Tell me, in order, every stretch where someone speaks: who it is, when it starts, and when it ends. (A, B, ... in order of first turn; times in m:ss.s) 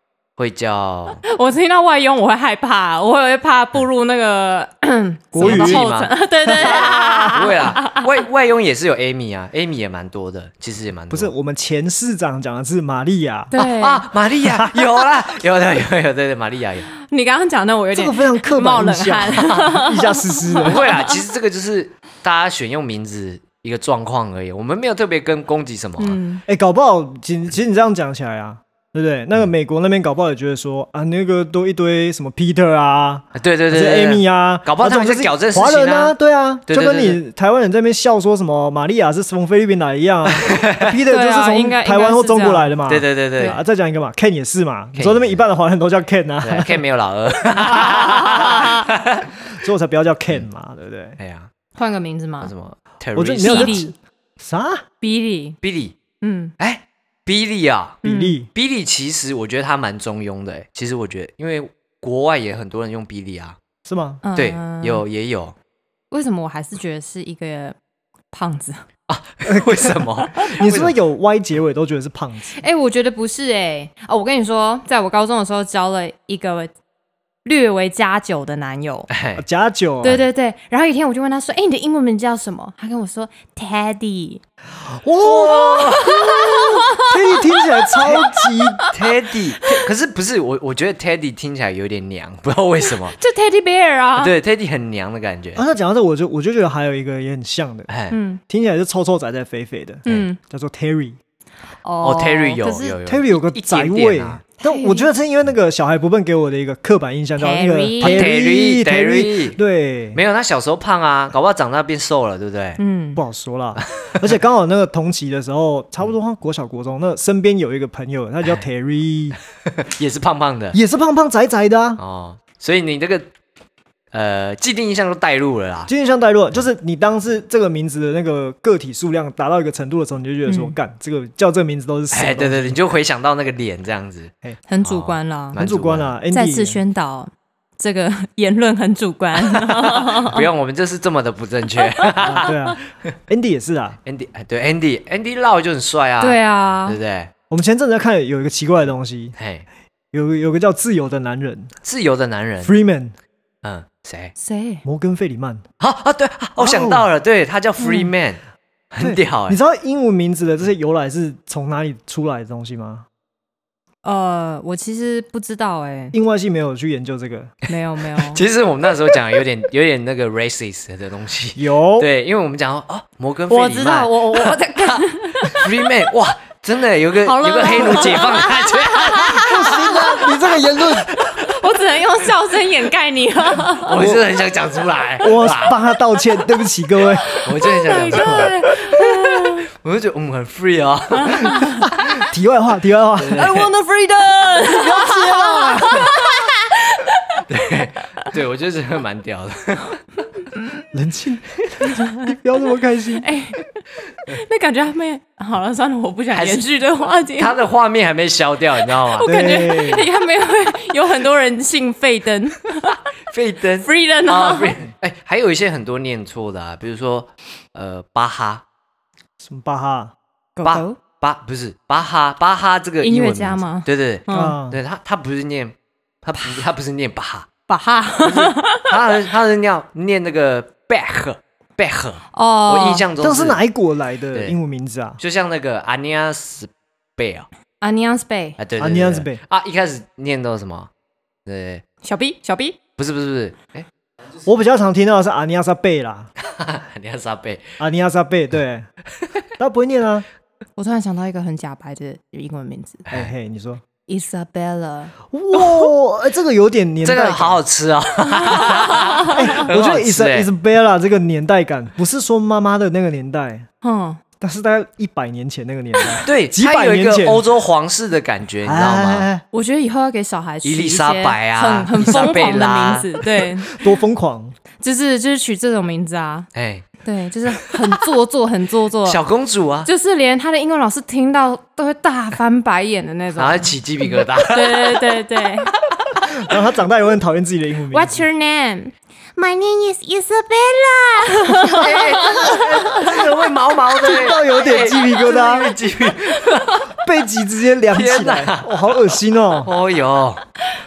0:00.4-0:01.2 A
0:01.2-0:08.1 B
0:05.3-0:05.8 C
0:05.4-0:11.3 A
0:06.5-0:07.4 C
0:11.1-0:13.5 C
0:13.5-0:14.0 B
0:13.6-0:16.9 A
0:14.4-0:14.8 C
0:17.0-0:21.2 B
0:17.9-0:20.9 C
0:20.6-0:26.2 A
0:26.0-0:26.4 B
0:26.5-0:46.8 C
0:33.4-0:36.2 A
0:36.7-0:37.2 A
0:40.3-0:40.9 A
0:41.1-0:42.8 B
0:42.9-0:43.6 A
0:45.0-0:45.4 A
0:46.4-0:49.3 A
0:47.7-0:48.5 C
0:47.8-0:48.8 B
0:49.5-0:51.2 C
0:51.2-0:51.5 A
0:51.7-0:52.5 B
0:52.4-0:53.8 A
0:53.1-0:54.8 C
0:53.4-0:53.9 B
0:55.0-0:55.6 B
0:55.6-0:55.9 A
0:56.2-0:56.5 B
0:56.6-0:58.0 A
0:58.0-0:58.4 B
0:58.0-0:58.5 C
0:58.5-1:03.6 A
1:03.8-1:04.2 C
1:04.2-1:05.0 B
1:04.4-1:05.5 A
1:06.1-1:07.8 B
1:08.3-1:08.8 B
1:09.1-1:11.0 A
1:09.4-1:12.6 C
1:12.6-1:16.7 B
1:17.4-1:19.1 B
1:19.1-1:19.4 A
1:19.4-1:20.2 C
1:20.0-1:24.4 B
1:24.9-1:28.9 C
1:25.2-1:26.1 A
1:25.2-1:28.9 B
1:28.9-1:33.2 A
1:32.9-1:34.3 B
1:34.2-1:35.6 A
1:35.6-1:37.9 C
1:37.9-1:38.2 A
1:38.1-1:38.4 B
1:38.5-1:41.2 C
1:40.0-1:40.4 B
1:41.8-1:43.0 B
1:42.0-1:44.4 A
1:43.0-1:50.2 C
1:44.6-1:45.1 B
1:47.4-1:48.3 B
1:48.0-1:49.6 A
1:50.1-1:52.8 A
1:52.8-1:53.2 B
1:53.2-1:59.4 C
1:53.8-1:54.3 A
1:59.7-2:00.8 A
2:00.7-2:02.0 C
2:02.0-2:03.3 A
2:04.1-2:05.9 A
2:05.9-2:12.8 C
2:10.4-2:10.8 B
2:12.1-2:16.1 A
2:14.7-2:15.6 B
2:15.6-2:16.8 C
2:16.3-2:20.4 B
2:19.8-2:22.5 A
2:21.9-2:22.5 B
2:22.2-2:24.0 C
2:24.0-2:27.3 A
2:26.2-2:27.0 B
2:27.5-2:29.4 C
2:29.4-2:29.6 A
2:30.1-2:31.7 C
2:31.8-2:32.7 A
2:32.6-2:33.1 C
2:33.6-2:34.3 A
2:34.4-2:34.8 B
2:34.8-2:35.6 C
2:35.8-2:38.4 A
2:36.6-2:37.1 C
2:37.8-2:38.1 B
2:38.9-2:39.6 A
2:39.0-2:43.0 C
2:44.0-2:46.2 B
2:46.1-2:47.5 C
2:47.7-2:48.4 B
2:48.2-3:00.2 A
2:51.6-2:52.1 C
2:53.5-2:55.7 B
2:57.2-3:00.3 B
2:59.4-3:01.1 C
3:00.8-3:01.6 A
3:01.5-3:04.0 B
3:03.8-3:05.8 A
3:03.9-3:04.2 C
3:05.2-3:07.3 C
3:07.2-3:09.7 B
3:07.4-3:11.8 A
3:08.1-3:08.5 C
3:11.2-3:11.9 B
3:12.0-3:13.7 C
3:13.2-3:13.7 A
3:13.4-3:17.4 B
3:14.6-3:16.1 C
3:17.5-3:20.0 A
3:20.9-3:23.2 C
3:21.9-3:22.2 B
3:23.2-3:27.5 B
3:26.3-3:26.6 A
3:27.4-3:29.3 A
3:28.9-3:33.0 B
3:29.2-3:30.1 C
3:33.3-3:38.6 A
3:33.8-3:34.8 B
3:39.4-3:40.1 C
3:40.6-3:41.0 B
3:40.6-3:47.5 A
3:43.0-3:44.6 B
3:44.3-3:44.8 C
3:47.7-3:48.9 B
3:48.2-3:53.6 A
3:52.3-3:53.0 B
3:53.2-3:55.2 C
3:55.2-3:57.5 A
3:57.8-3:58.6 B
3:58.6-4:00.9 A
3:58.8-3:59.4 C
4:01.4-4:01.8 A
4:02.0-4:02.8 B
4:03.0-4:03.9 A
4:04.4-4:06.3 C
4:06.4-4:07.8 A
4:07.8-4:08.9 C
4:09.6-4:10.2 C
4:10.8-4:13.0 B
4:13.1-4:13.8 C
4:14.1-4:15.1 B
4:15.3-4:17.6 C
4:15.6-4:15.9 A
4:17.0-4:20.5 A
4:18.4-4:19.4 B
4:19.2-4:23.7 C
4:23.8-4:24.2 B
4:24.4-4:27.4 C
4:26.2-4:29.3 A
4:28.6-4:29.4 C
4:29.5-4:33.8 B
4:30.6-4:33.2 A
4:33.7-4:34.5 C
4:34.8-4:36.5 B
4:36.5-4:36.8 A
4:37.0-4:39.2 B
4:39.0-4:39.9 A
4:39.8-4:45.7 B
4:43.4-4:45.1 A
4:46.3-4:48.2 C
4:47.9-4:53.0 B
4:51.5-4:56.9 A
4:54.0-4:55.8 C
4:56.9-4:59.7 C
4:57.9-4:58.8 A
4:59.6-5:00.4 A